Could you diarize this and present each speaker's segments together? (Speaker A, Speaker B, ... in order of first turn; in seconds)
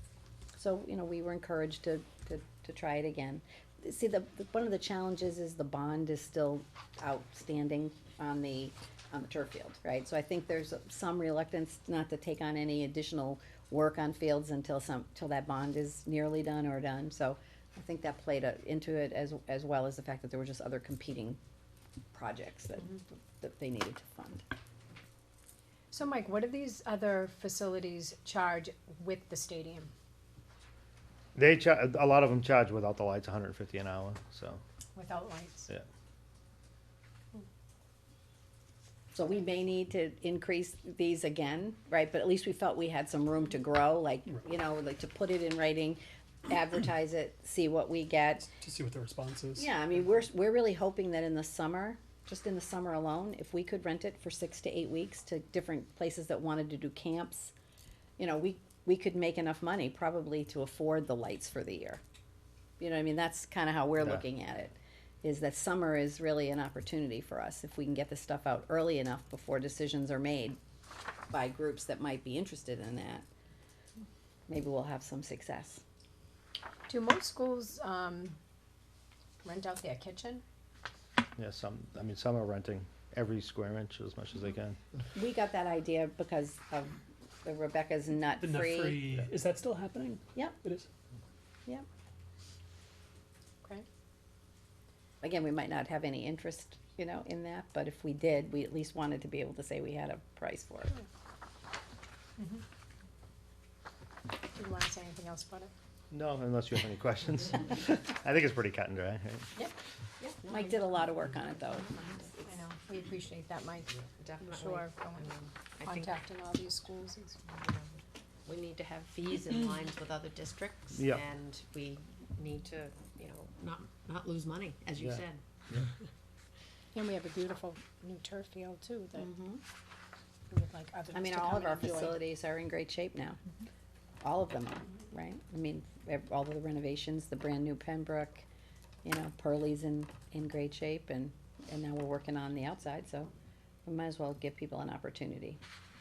Speaker A: 0.5-21.4, 22.1-24.4, 39.1-48.5, 49.5-57.5, 58.2-62.0, 62.8-70.6, 71.3-73.2, 74.5-75.8, 85.1-89.0, 95.2-101.0, 110.3-112.6, 129.2-129.6, 131.1-133.4, 134.2-138.4, 139.0-143.3, 143.8-145.6
Speaker B: 25.9-29.9, 35.0-35.7, 76.9-78.4, 79.4-80.4, 102.4-102.6, 104.5-105.7, 112.5-117.4, 126.9-129.3, 130.5-132.2
Speaker C: 31.3-34.6, 81.4-84.8, 106.1-109.5, 120.9-121.2, 125.0-125.8
Speaker D: 48.5-49.7, 88.4-90.9
Speaker E: 110.4-111.3, 114.2-116.2, 117.5-125.4